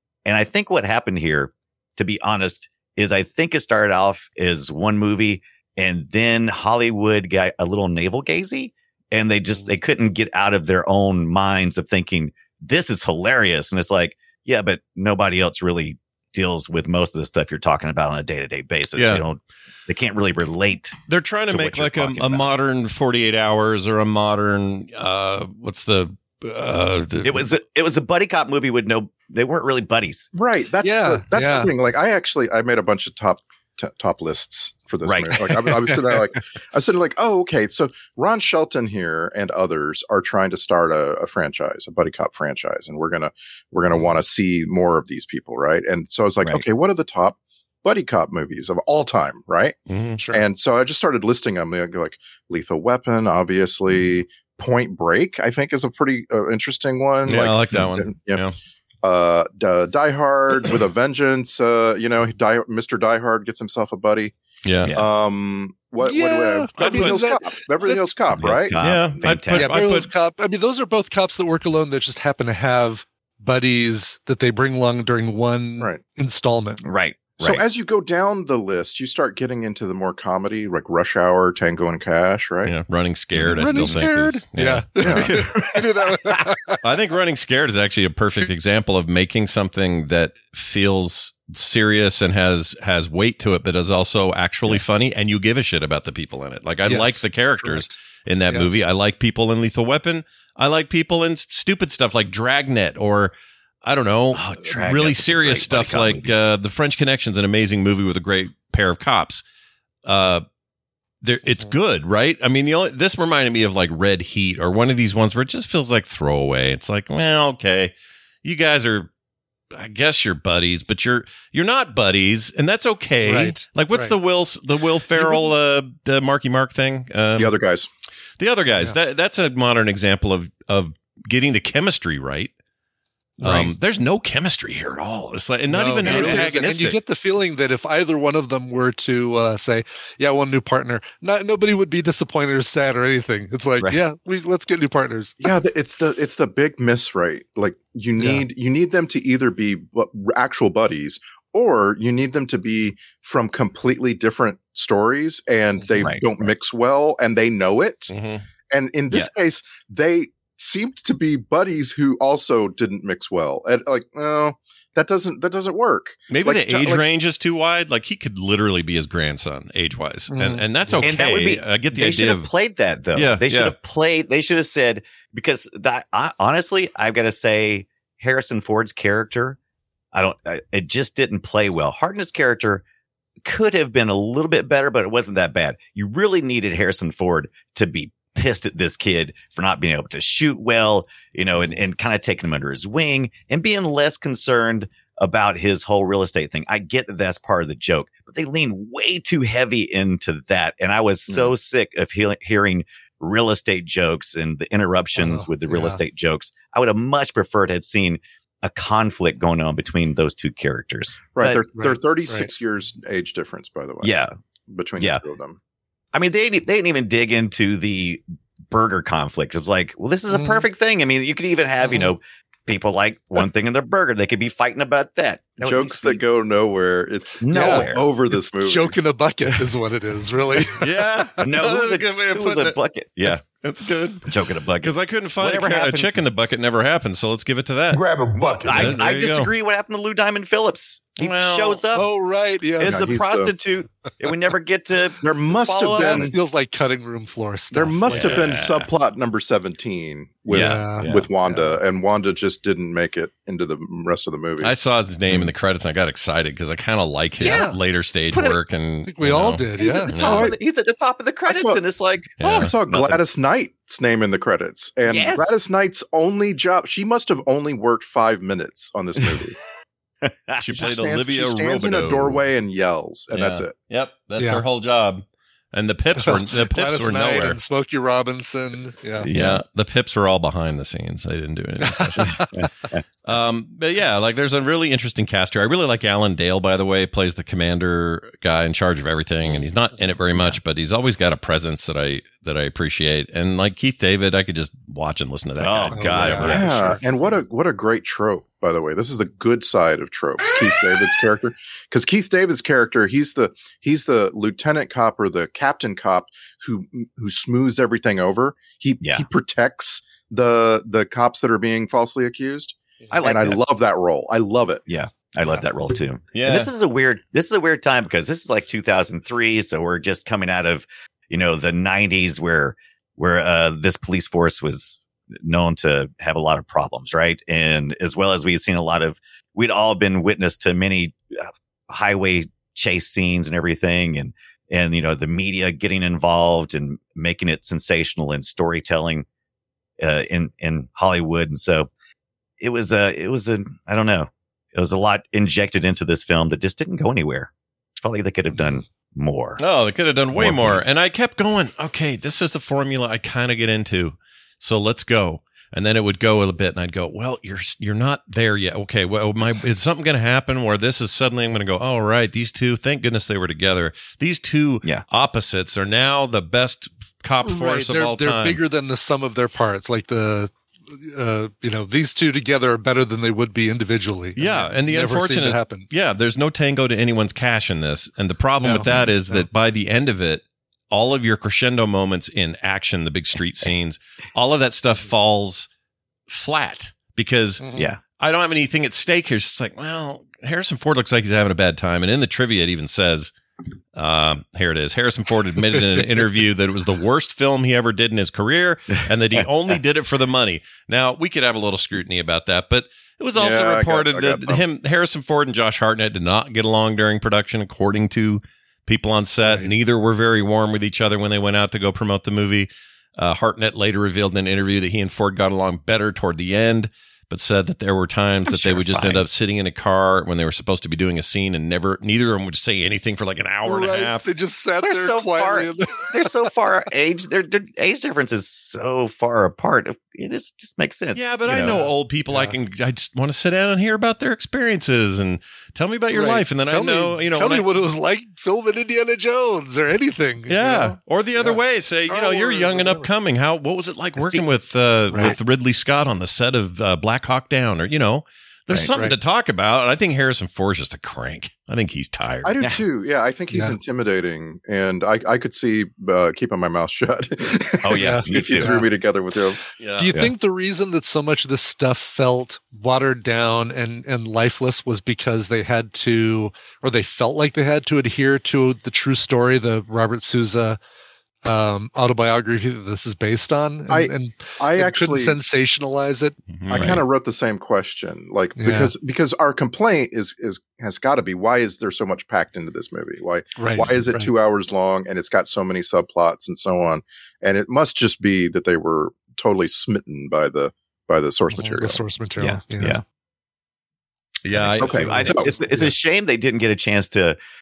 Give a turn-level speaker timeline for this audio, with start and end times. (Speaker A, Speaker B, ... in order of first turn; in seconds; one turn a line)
Speaker A: 0.2-22.4
Speaker B: 18.9-19.2
Speaker B: 21.1-27.5
Speaker A: 27.2-30.3
Speaker C: 30.3-49.8
Speaker D: 30.8-31.7
Speaker A: 35.0-35.6
Speaker B: 49.9-50.2
Speaker D: 50.2-50.4
Speaker C: 50.3-58.4
Speaker B: 57.2-58.5
Speaker C: 59.0-64.3
Speaker B: 64.6-64.9
Speaker C: 64.9-68.8
Speaker D: 66.0-68.2
Speaker B: 66.8-67.2
Speaker A: 68.3-69.8
Speaker B: 68.8-70.1
Speaker D: 69.5-76.8
Speaker A: 76.8-77.6
Speaker C: 77.4-82.8
Speaker B: 82.6-85.4
Speaker D: 83.5-86.8
Speaker C: 85.0-85.4
Speaker A: 85.4-86.4
Speaker B: 86.8-103.3
Speaker D: 96.8-97.9
Speaker B: 103.8-109.4
Speaker A: 104.3-106.3
Speaker B: 110.0-110.4
Speaker B: 111.2-117.9
Speaker B: 118.4-119.1
Speaker B: 119.7-127.5
Speaker D: 123.2-124.1
Speaker D: 125.2-125.5
Speaker C: 127.3-127.9
Speaker B: 128.4-132.5
Speaker D: 133.4-133.7
Speaker B: 133.4-137.0
Speaker D: 135.7-145.4
Speaker A: 136.1-136.4
Speaker C: 145.4-158.1
Speaker D: 148.2-148.4
Speaker D: 155.8-156.0
Speaker A: 156.0-156.3
Speaker B: 158.1-158.4
Speaker C: 158.7-167.0
Speaker B: 166.3-172.5
Speaker D: 170.3-171.1
Speaker A: 171.0-179.6
Speaker B: 173.1-173.8
Speaker A: 180.1-182.8
Speaker A: 183.4-211.6
Speaker D: 205.2-206.0
Speaker C: 211.3-215.6
Speaker D: 211.8-212.5
Speaker A: 214.0-214.3
Speaker A: 216.1-226.2
Speaker D: 220.3-220.6
Speaker C: 225.6-229.0
Speaker A: 227.4-228.0
Speaker D: 227.5-227.9
Speaker D: 228.6-230.8
Speaker B: 230.8-238.1
Speaker A: 231.4-233.4
Speaker A: 234.2-236.2
Speaker A: 238.4-242.1
Speaker B: 238.6-239.5
Speaker B: 241.2-241.8
Speaker D: 241.9-243.1
Speaker A: 242.8-246.3
Speaker C: 242.8-243.5
Speaker C: 245.2-246.3
Speaker D: 245.9-248.3
Speaker C: 247.7-254.8
Speaker B: 248.1-248.9
Speaker D: 250.5-251.7
Speaker B: 250.5-250.8
Speaker A: 251.0-251.3
Speaker B: 254.6-260.5
Speaker A: 257.4-257.7
Speaker D: 257.4-257.8
Speaker A: 258.3-258.6
Speaker D: 259.1-260.1
Speaker A: 259.8-263.2
Speaker C: 260.2-260.6
Speaker C: 261.4-261.8
Speaker B: 262.4-262.7
Speaker C: 262.4-269.6
Speaker A: 265.1-265.5
Speaker A: 270.2-270.6
Speaker B: 270.6-272.4
Speaker C: 270.7-273.7
Speaker B: 273.3-277.6
Speaker D: 274.4-274.6
Speaker D: 276.2-279.3
Speaker A: 279.2-279.6
Speaker B: 279.3-282.5
Speaker D: 281.9-282.6
Speaker A: 282.3-283.0
Speaker B: 283.2-296.8
Speaker A: 295.6-296.7
Speaker D: 295.9-297.0
Speaker C: 296.5-314.8
Speaker A: 313.1-313.6
Speaker A: 314.9-339.2
Speaker B: 316.3-316.7
Speaker A: 340.0-341.9
Speaker A: 342.6-349.6
Speaker B: 349.6-368.6
Speaker A: 350.3-350.9
Speaker D: 367.4-375.9
Speaker B: 374.4-385.7
Speaker D: 378.6-379.4
Speaker B: 386.3-393.3
Speaker D: 387.6-387.9
Speaker B: 393.9-424.2
Speaker C: 403.3-404.6
Speaker D: 409.4-409.7
Speaker A: 418.5-419.2
Speaker D: 423.6-426.4
Speaker A: 424.8-431.8
Speaker B: 431.1-437.6
Speaker D: 431.6-432.6
Speaker D: 436.1-443.1
Speaker B: 440.5-452.6
Speaker A: 444.2-444.4
Speaker C: 452.4-459.6
Speaker A: 457.8-458.8
Speaker D: 457.9-458.9
Speaker B: 459.8-460.1
Speaker D: 460.0-470.8
Speaker D: 471.4-476.4
Speaker C: 473.9-475.4
Speaker B: 476.5-477.0
Speaker C: 476.7-492.0
Speaker A: 476.7-477.0
Speaker D: 478.6-478.9
Speaker D: 483.6-484.3
Speaker D: 491.5-493.0
Speaker A: 492.4-493.0
Speaker B: 494.4-495.9
Speaker A: 494.5-497.4
Speaker C: 494.8-495.5